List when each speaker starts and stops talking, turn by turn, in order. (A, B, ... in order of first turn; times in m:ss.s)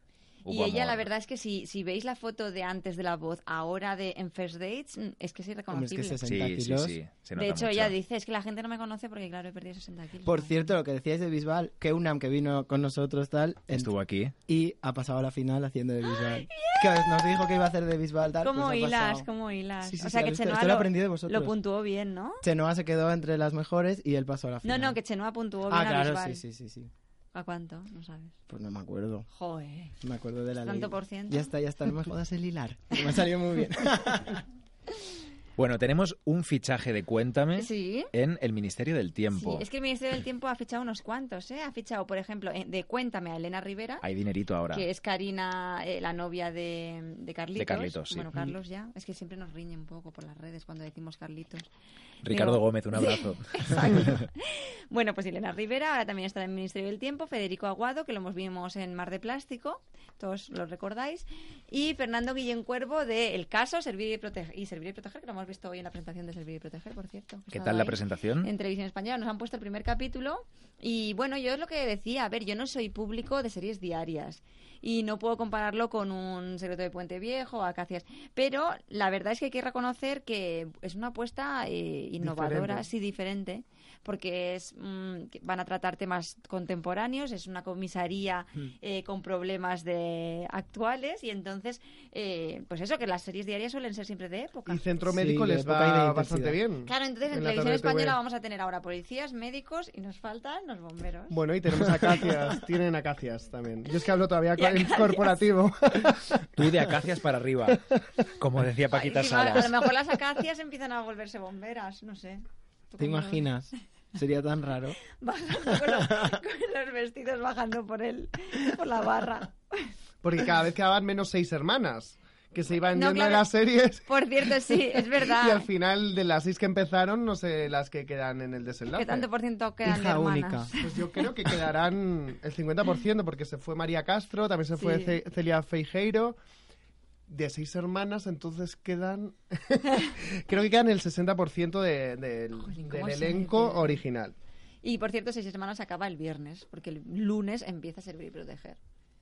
0:00.4-0:06.2 A
0:00.4-0:01.0 B
0:05.7-0:07.0 C
0:06.2-0:07.9 B
0:07.4-0:10.5 A
0:10.2-0:13.9 C
0:13.7-0:14.3 B
0:14.5-0:19.3 C
0:16.4-0:17.3 A
0:18.4-0:22.4 A
0:19.8-0:21.6 C
0:22.4-0:25.0 C
0:24.6-0:26.4 A
0:25.7-0:26.9 C
0:27.3-0:28.3 A
0:28.5-0:29.2 C
0:29.3-0:29.9 A
0:30.0-0:34.4 C
0:30.6-0:31.5 A
0:35.6-0:39.6 B
0:37.5-0:38.1 A
0:39.3-0:44.0 A
0:44.0-0:44.8 B
0:44.7-0:51.7 A
0:47.6-0:48.4 B
0:52.2-0:54.2 B
0:52.3-1:34.8 A
1:07.5-1:08.5 B
1:22.2-1:22.8 D
1:34.7-1:38.2 D
1:35.0-1:36.6 C
1:36.8-1:41.4 A
1:41.3-1:46.5 D
1:44.6-1:45.4 A
1:46.6-1:47.8 B
1:48.4-1:49.9 B
1:48.9-1:53.4 A
1:53.0-1:55.0 C
1:55.1-1:59.9 A
2:00.2-2:09.3 D
2:02.9-2:03.5 A
2:04.1-2:05.7 A
2:09.0-2:11.1 A
2:09.8-2:10.7 C
2:10.8-2:16.4 D
2:14.8-2:15.2 A
2:17.3-2:24.3 D
2:22.5-2:24.0 A
2:24.8-2:28.8 A